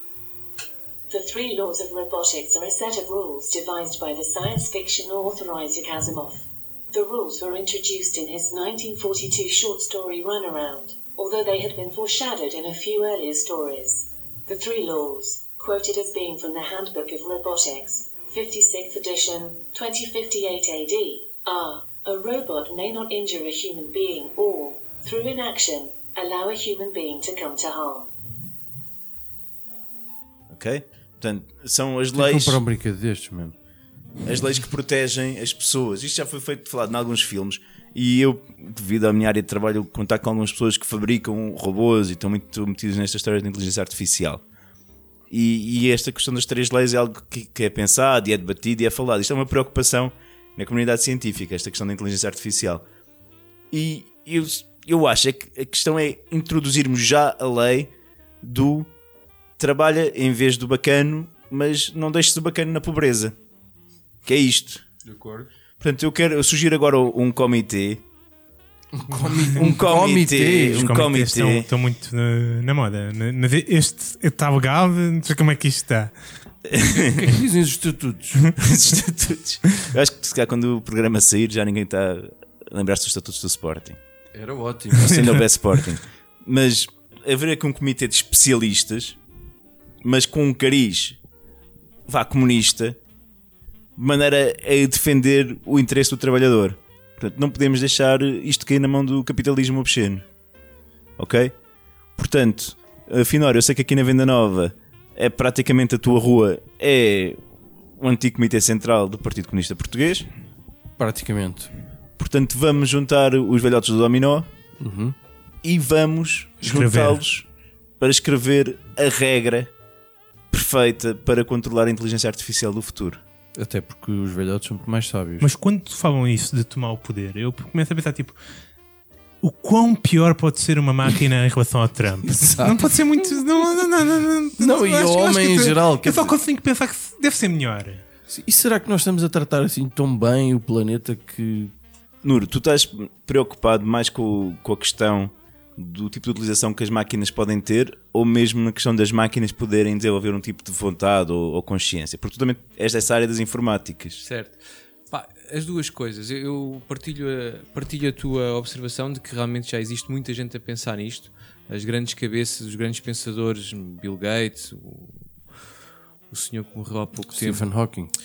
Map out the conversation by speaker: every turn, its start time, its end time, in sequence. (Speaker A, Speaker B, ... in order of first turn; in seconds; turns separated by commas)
Speaker A: 1.1-28.1, Speaker B: 30.5-32.6, Speaker C: 32.1-33.5, Speaker B: 34.2-44.4, Speaker B: 45.3-52.8, Speaker B: 53.7-58.9, Speaker B: 59.6-63.3, Speaker B: 64.2-64.8, Speaker C: 65.0-65.5, Speaker B: 65.8-68.0, Speaker C: 68.9-71.0, Speaker B: 69.5-71.7, Speaker D: 70.7-76.1, Speaker B: 76.7-77.3, Speaker C: 77.0-78.5, Speaker B: 78.6-84.0, Speaker C: 84.3-85.4, Speaker B: 85.0-89.2, Speaker D: 85.1-85.4, Speaker B: 90.0-91.2, Speaker B: 92.1-93.0, Speaker B: 94.0-100.2, Speaker B: 101.2-101.5, Speaker B: 102.2-107.4, Speaker B: 108.0-110.3, Speaker C: 111.0-111.7, Speaker B: 112.2-114.5, Speaker C: 114.8-115.1, Speaker B: 115.6-117.5, Speaker D: 116.6-117.2, Speaker B: 118.0-119.7, Speaker B: 120.5-123.2, Speaker C: 123.5-125.5, Speaker D: 125.4-128.4, Speaker D: 129.4-138.0, Speaker C: 132.2-133.0, Speaker C: 134.6-136.4, Speaker C: 138.3-141.7, Speaker B: 142.2-154.2, Speaker E: 154.2-165.3, Speaker E: 166.3-167.9, Speaker C: 167.3-168.1